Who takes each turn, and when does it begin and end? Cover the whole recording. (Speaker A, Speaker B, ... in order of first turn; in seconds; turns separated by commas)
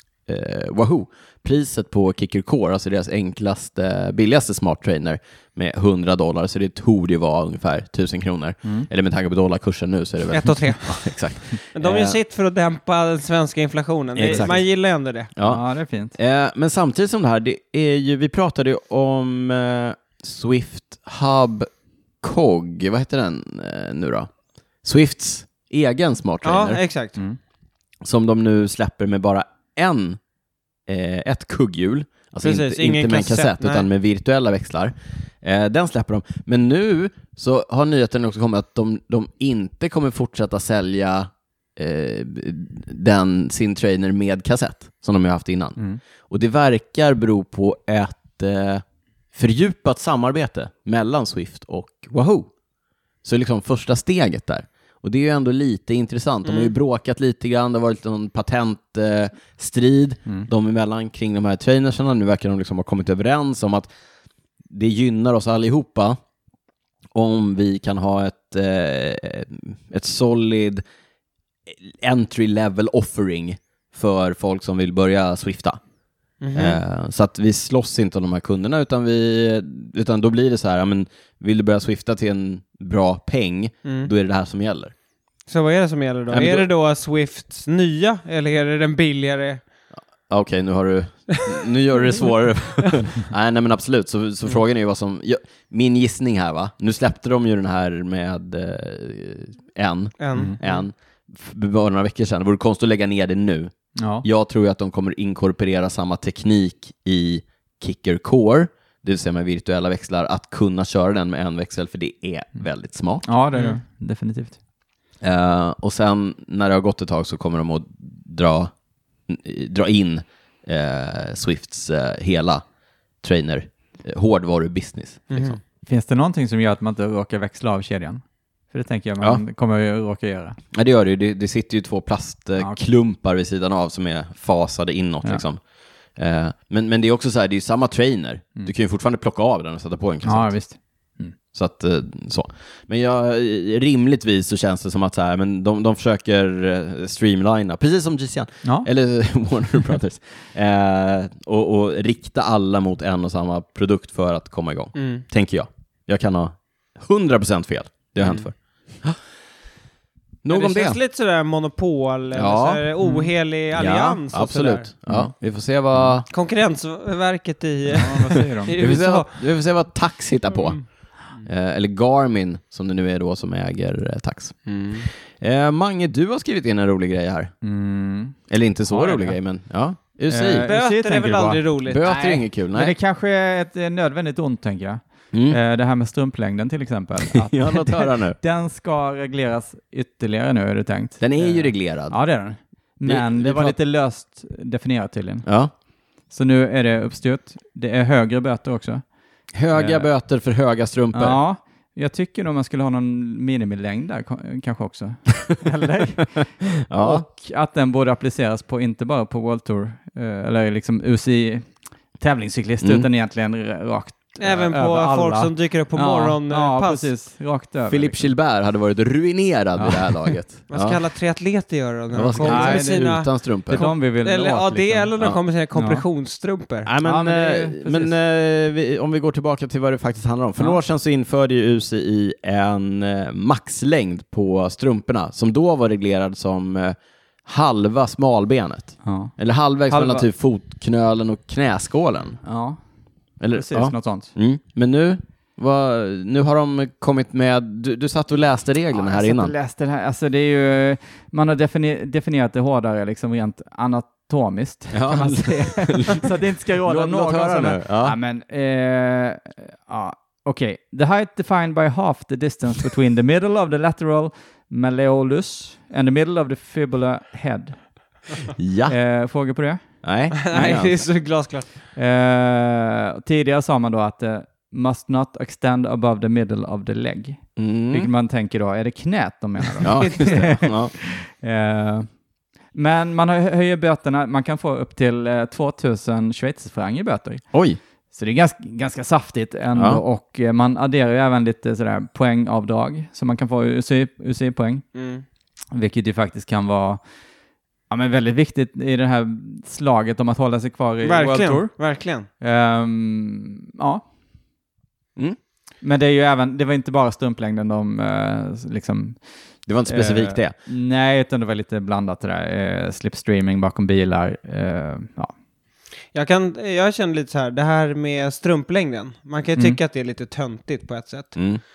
Speaker A: 0.3-12.2, Speaker B: 10.3-15.3, Speaker A: 14.2-14.6, Speaker C: 14.2-14.6, Speaker A: 15.4-21.7, Speaker C: 15.4-16.2, Speaker A: 22.2-24.3, Speaker A: 24.8-26.8, Speaker B: 26.4-27.2, Speaker A: 28.0-30.2, Speaker A: 30.9-52.5, Speaker B: 32.4-33.9, Speaker A: 53.2-63.9, Speaker B: 56.5-56.7, Speaker A: 64.7-66.2, Speaker A: 67.1-70.8, Speaker A: 71.7-75.8, Speaker B: 76.4-76.8, Speaker A: 76.5-84.9, Speaker B: 83.8-84.1, Speaker B: 85.5-89.6, Speaker A: 86.3-86.7, Speaker A: 90.3-113.3, Speaker B: 100.2-100.8, Speaker C: 104.0-104.2, Speaker C: 113.2-114.6, Speaker B: 113.5-113.8, Speaker A: 115.2-118.7, Speaker A: 119.3-122.7, Speaker A: 123.2-125.6, Speaker B: 125.3-125.6, Speaker C: 125.9-130.6, Speaker A: 130.7-140.5, Speaker C: 140.2-141.3, Speaker A: 141.5-159.2, Speaker B: 154.9-155.2, Speaker A: 160.4-161.0, Speaker B: 160.5-164.9, Speaker A: 162.3-162.8, Speaker C: 163.0-163.3, Speaker A: 163.7-166.3, Speaker B: 166.3-169.3, Speaker C: 167.9-168.8, Speaker A: 168.8-170.8, Speaker B: 170.5-170.8, Speaker A: 171.4-174.7, Speaker B: 174.7-175.1, Speaker A: 175.3-177.5, Speaker C: 177.6-179.4, Speaker A: 178.5-180.7, Speaker C: 180.3-181.7, Speaker B: 180.7-182.4, Speaker A: 181.9-182.9, Speaker C: 182.7-195.5, Speaker A: 185.3-185.6, Speaker A: 187.3-188.4, Speaker A: 191.2-192.2, Speaker A: 193.1-193.8, Speaker A: 195.5-195.7, Speaker C: 196.3-199.1, Speaker A: 199.5-201.4, Speaker C: 199.7-200.1, Speaker C: 201.1-218.2, Speaker A: 206.9-207.3, Speaker A: 212.8-213.1, Speaker B: 214.4-217.1, Speaker A: 217.9-221.0, Speaker C: 219.8-220.3, Speaker B: 220.7-226.9, Speaker A: 222.1-223.9, Speaker C: 222.4-225.2, Speaker C: 225.8-226.0, Speaker A: 226.9-242.4, Speaker C: 227.0-228.2, Speaker C: 239.0-239.3, Speaker C: 239.9-240.3, Speaker C: 242.4-242.8, Speaker A: 243.4-249.5, Speaker C: 243.5-244.3, Speaker C: 248.9-267.8, Speaker A: 254.9-258.2, Speaker A: 268.6-269.0, Speaker C: 268.9-269.9, Speaker A: 270.0-270.9, Speaker B: 270.4-271.7, Speaker C: 270.5-270.8, Speaker C: 271.9-282.1, Speaker A: 277.6-278.1, Speaker A: 279.8-280.9, Speaker C: 282.7-287.5, Speaker A: 287.5-287.8, Speaker C: 288.1-294.9, Speaker A: 289.8-290.0, Speaker B: 294.9-295.2, Speaker C: 295.7-297.0, Speaker C: 297.9-301.7, Speaker B: 301.0-302.3, Speaker C: 302.4-304.0, Speaker C: 305.8-309.3, Speaker A: 309.7-310.5, Speaker C: 309.9-315.3, Speaker B: 316.1-321.4, Speaker A: 321.4-321.6